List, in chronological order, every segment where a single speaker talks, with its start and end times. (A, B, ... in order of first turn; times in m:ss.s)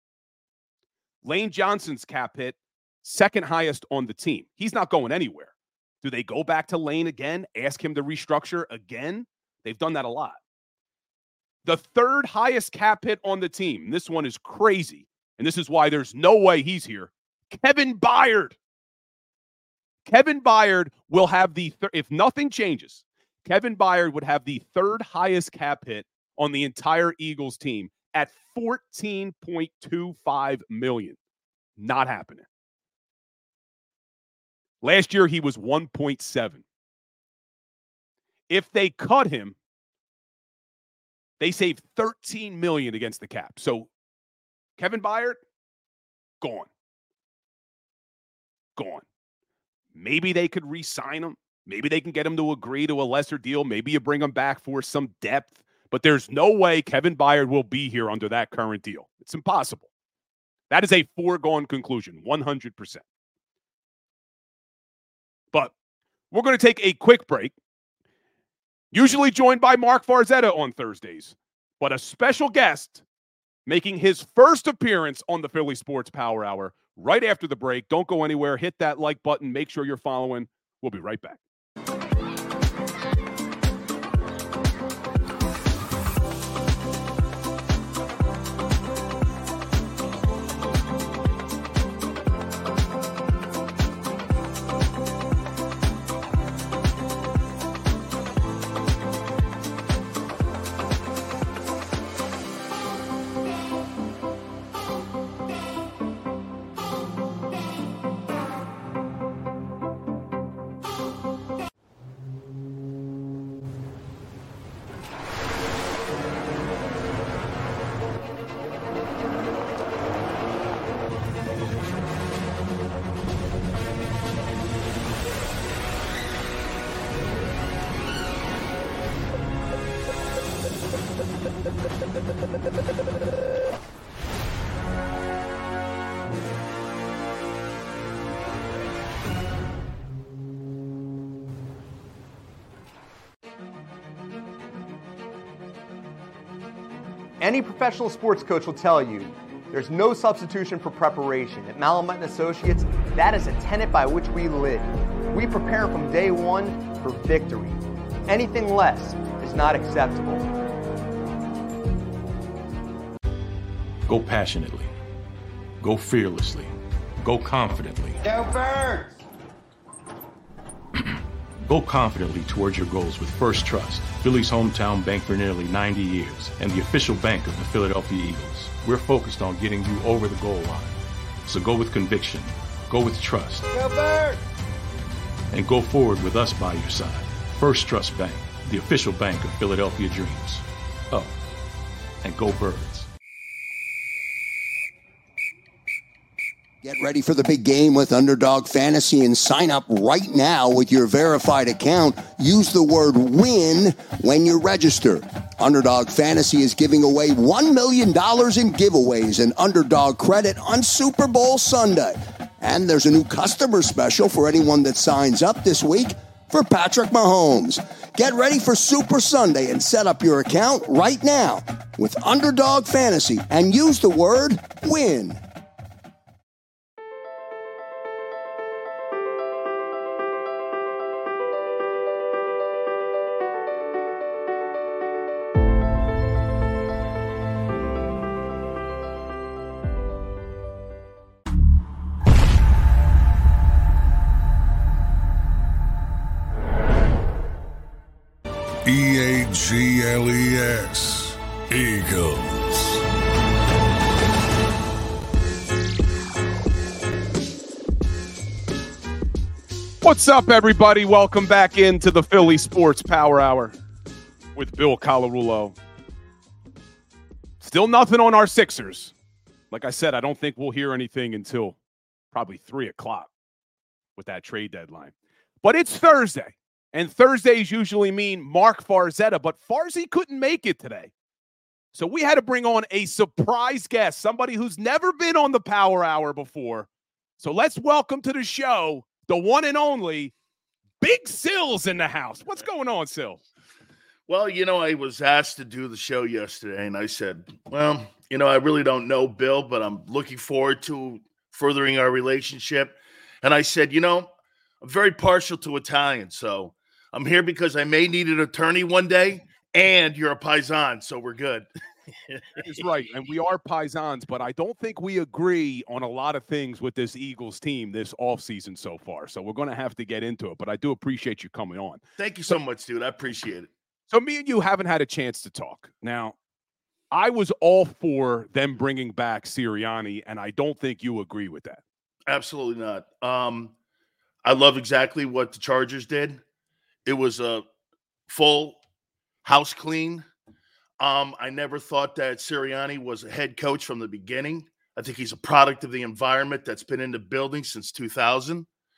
0:01.2-0:10.4 A
0:11.6-0:18.6 A
0:20.0-0:31.2 A
0:31.8-0:32.4 A
0:34.8-0:36.6 A
0:38.5-0:39.6 A
0:41.4-0:43.9 A
0:44.8-0:45.4 A
0:46.4-0:46.7 A
0:48.8-0:49.0 A
0:49.9-0:59.9 A
1:00.7-1:03.0 A
1:06.3-1:07.5 A
1:08.9-1:13.0 A
1:13.6-1:21.4 A
2:27.4-2:40.5 B
2:44.0-2:44.9 C
2:45.8-2:48.3 C
2:48.4-2:49.1 B
2:51.0-3:03.8 C
3:05.5-3:11.4 C
3:12.2-3:13.1 C
3:16.8-3:45.4 D
4:08.8-4:13.0 E
4:20.0-4:23.7 A
4:24.6-4:25.8 A
4:27.6-4:29.1 A
4:29.7-4:31.8 A
4:32.3-4:33.3 A
4:34.2-4:41.1 A
4:41.9-4:46.9 A
4:47.4-4:50.3 A
4:51.0-4:53.4 A
4:54.3-5:04.3 F
5:04.8-5:11.7 F
5:12.3-5:12.8 F
5:12.6-5:22.6 A
5:22.2-5:23.7 F
5:24.1-5:26.3 A
5:27.1-5:31.8 A
5:32.3-5:33.7 F
5:34.4-5:36.4 F
5:37.0-5:37.6 F
5:38.3-5:38.8 F
5:39.4-5:40.3 F
5:41.0-5:48.7 F